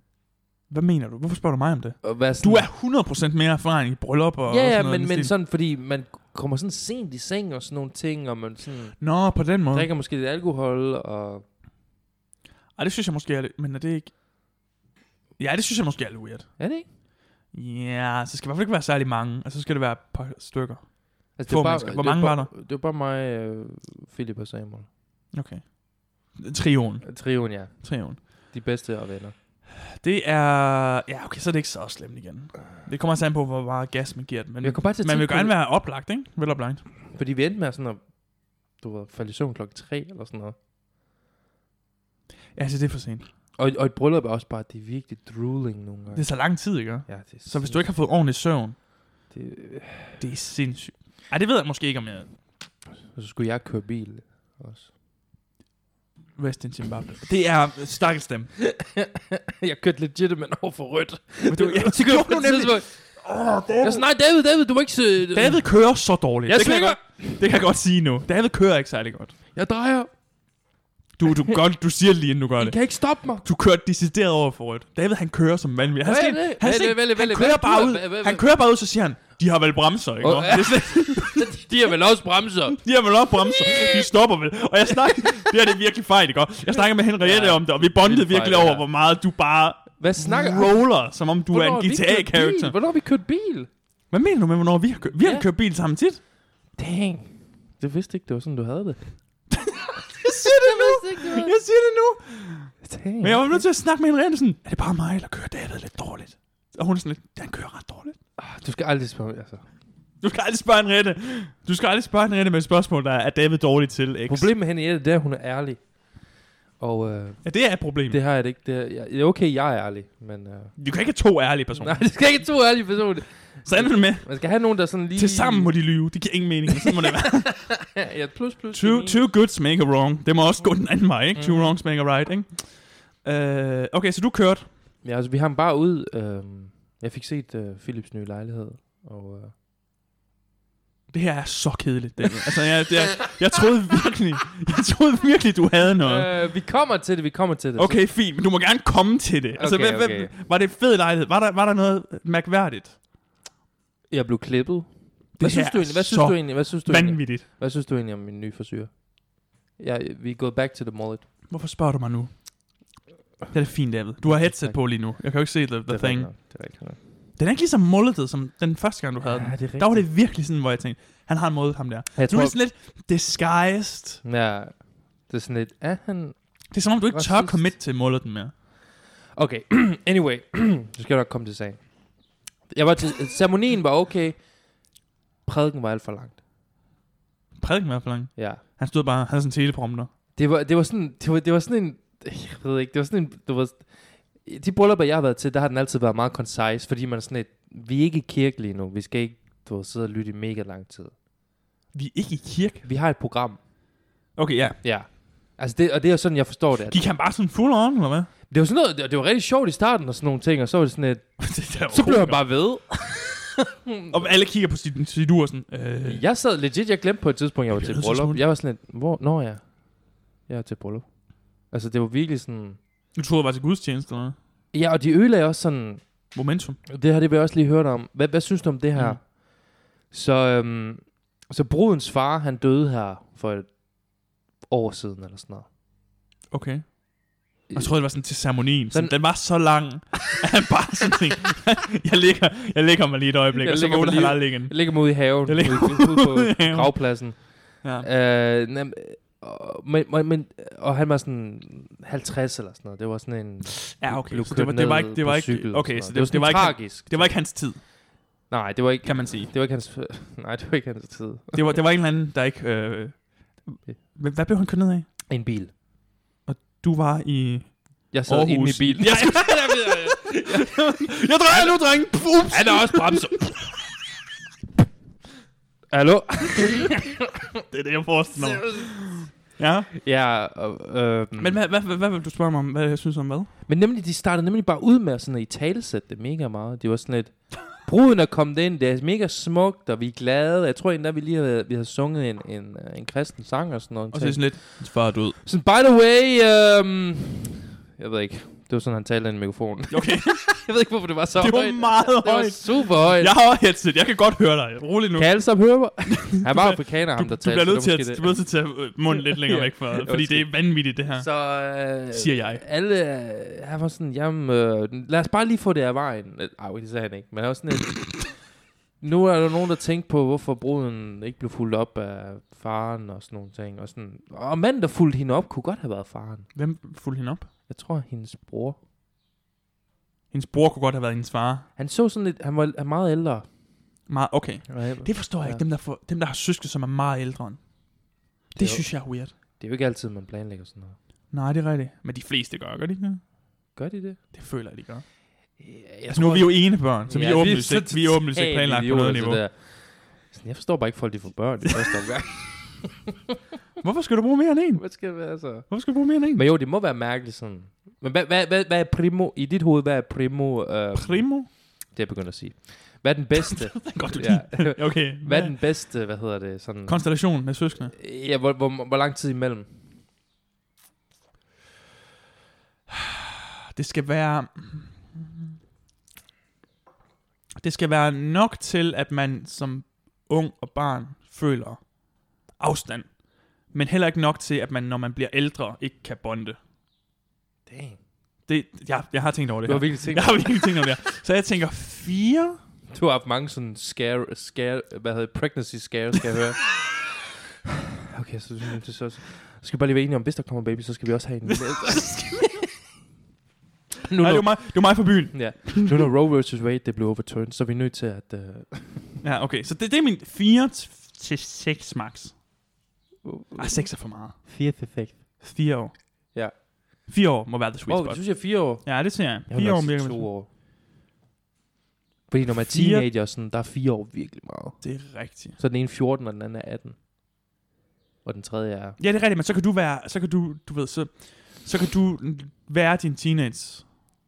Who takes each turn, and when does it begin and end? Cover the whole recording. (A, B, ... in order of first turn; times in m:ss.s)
0:00.7-0:05.3 A
0:02.0-0:02.7 B
0:04.5-0:09.0 B
0:09.0-0:09.9 A
0:09.7-0:11.4 B
0:12.8-0:14.1 A
0:15.4-0:16.5 A
0:16.6-0:16.9 B
0:17.5-0:20.9 A
0:21.4-0:24.9 B
0:21.4-0:22.5 A
0:25.3-0:25.7 A
0:26.3-0:27.1 A
0:27.0-0:29.4 B
0:27.7-0:28.2 A
0:29.8-0:36.8 A
0:34.6-0:35.6 B
0:37.1-0:38.0 B
0:38.8-0:40.6 B
0:42.6-0:43.3 A
0:43.6-0:46.2 B
0:46.1-0:48.8 A
0:47.1-0:47.8 B
0:49.3-0:50.2 B
0:50.2-0:52.3 A
0:53.1-0:54.9 B
0:56.4-0:58.5 A
0:58.6-1:02.9 B
1:01.5-1:04.1 A
1:03.8-1:05.6 B
1:05.3-1:09.3 A
1:06.5-1:07.4 B
1:09.5-1:10.1 B
1:11.2-1:12.8 A
1:12.6-1:13.5 B
1:13.4-1:21.5 A
1:16.0-1:18.5 B
1:20.2-1:22.8 B
1:22.7-1:32.7 A
1:23.5-1:24.0 B
1:25.1-1:25.5 B
1:27.2-1:28.9 B
1:30.0-1:30.9 B
1:31.5-1:33.7 B
1:34.1-1:36.2 A
1:35.2-1:35.5 B
1:36.8-1:39.0 B
1:39.5-1:48.2 A
1:40.2-1:41.5 B
1:42.8-1:43.6 B
1:48.4-1:49.6 B
1:50.2-1:54.5 A
1:54.3-1:55.8 B
1:56.8-1:57.5 B
1:57.4-1:58.2 A
1:58.0-2:00.8 B
2:00.8-2:02.0 A
2:01.8-2:05.7 B
2:03.7-2:04.3 A
2:05.2-2:07.6 A
2:06.8-2:09.3 B
2:08.7-2:14.7 A
2:11.4-2:11.8 B
2:15.0-2:19.5 B
2:21.1-2:26.3 A
2:26.0-2:28.0 B
2:27.8-2:33.0 A
2:29.6-2:30.3 B
2:34.1-2:39.0 B
2:35.4-2:37.4 A
2:39.8-2:41.2 B
2:41.5-2:42.3 A
2:43.5-2:46.3 A
2:44.2-2:44.8 B
2:45.9-2:47.0 B
2:47.4-2:54.2 A
2:49.2-2:50.0 B
2:52.2-2:52.6 B
2:54.2-2:56.4 B
2:56.7-2:58.5 A
2:57.1-2:57.7 B
2:59.4-3:01.8 B
3:02.7-3:04.4 B
3:05.5-3:06.4 B
3:07.6-3:10.1 A
3:08.4-3:08.6 B
3:10.4-3:21.1 B
3:21.9-3:22.8 A
3:22.8-3:23.6 B
3:24.4-3:24.8 A
3:24.8-3:27.1 B
3:26.9-3:28.3 A
3:28.5-3:34.3 B
3:31.4-3:32.4 A
3:34.1-3:36.2 A
3:36.0-3:39.7 B
3:37.7-3:38.4 A
3:40.5-3:41.1 B
3:41.7-3:42.8 B
3:43.2-3:44.4 A
3:44.7-3:46.0 B
3:46.3-3:46.8 A
3:46.9-3:49.4 B
3:50.1-3:53.7 B
3:54.7-3:55.7 B
3:56.5-3:57.0 A
3:57.7-3:58.0 B
3:57.7-4:07.0 A
3:58.9-3:59.2 B
4:03.6-4:17.4 B
4:07.8-4:08.1 A
4:13.9-4:17.8 A
4:18.5-4:21.7 B
4:19.0-4:19.5 A
4:21.5-4:25.1 A
4:25.3-4:25.7 B
4:26.5-4:33.5 A
4:28.1-4:31.8 B
4:32.5-4:33.6 B
4:35.9-4:37.6 B
4:37.7-4:39.9 A
4:38.4-4:39.0 B
4:39.9-4:41.6 B
4:41.4-4:43.5 A
4:43.7-4:54.9 B
4:54.1-4:55.4 A
4:55.4-5:03.3 B
4:59.9-5:00.5 A
5:01.4-5:05.3 A
5:05.2-5:08.3 B
5:06.1-5:11.3 A
5:09.1-5:10.5 B
5:11.1-5:18.4 B
5:12.1-5:12.6 A
5:19.0-5:26.5 B
5:26.6-5:27.5 A
5:27.7-5:28.8 B
5:30.3-5:31.6 A
5:31.8-5:33.5 B
5:34.1-5:37.6 A
5:34.7-5:35.6 B
5:38.5-5:39.3 A
5:38.6-5:41.0 B
5:41.3-5:43.2 A
5:43.8-5:44.2 B
5:44.3-5:45.1 A
5:45.6-5:53.1 B
5:46.1-5:49.4 A
5:53.8-5:55.0 A
5:54.8-6:07.0 B
5:55.6-5:56.4 A
6:01.0-6:01.5 A
6:03.4-6:05.6 A
6:06.9-6:07.9 A
6:07.9-6:09.7 B
6:12.9-6:15.4 A
6:17.6-6:21.8 A
6:22.6-6:23.1 A
6:23.7-6:26.6 A
6:27.7-6:28.0 B
6:28.5-6:32.6 A
6:29.6-6:30.5 B
6:32.9-6:37.1 B
6:38.1-6:42.7 B
6:41.5-6:42.5 A
6:44.0-6:44.6 B
6:44.2-6:46.1 A
6:45.3-6:49.2 B
6:49.2-6:52.3 A
6:53.2-6:53.9 B
6:53.6-6:54.4 A
6:54.4-6:55.2 B
6:55.4-6:55.9 A
6:57.1-7:00.3 A
6:57.9-7:00.5 B
7:02.3-7:04.8 B
7:02.6-7:03.1 A
7:04.8-7:05.6 A
7:05.6-7:07.0 B
7:08.2-7:09.0 B
7:09.0-7:14.0 A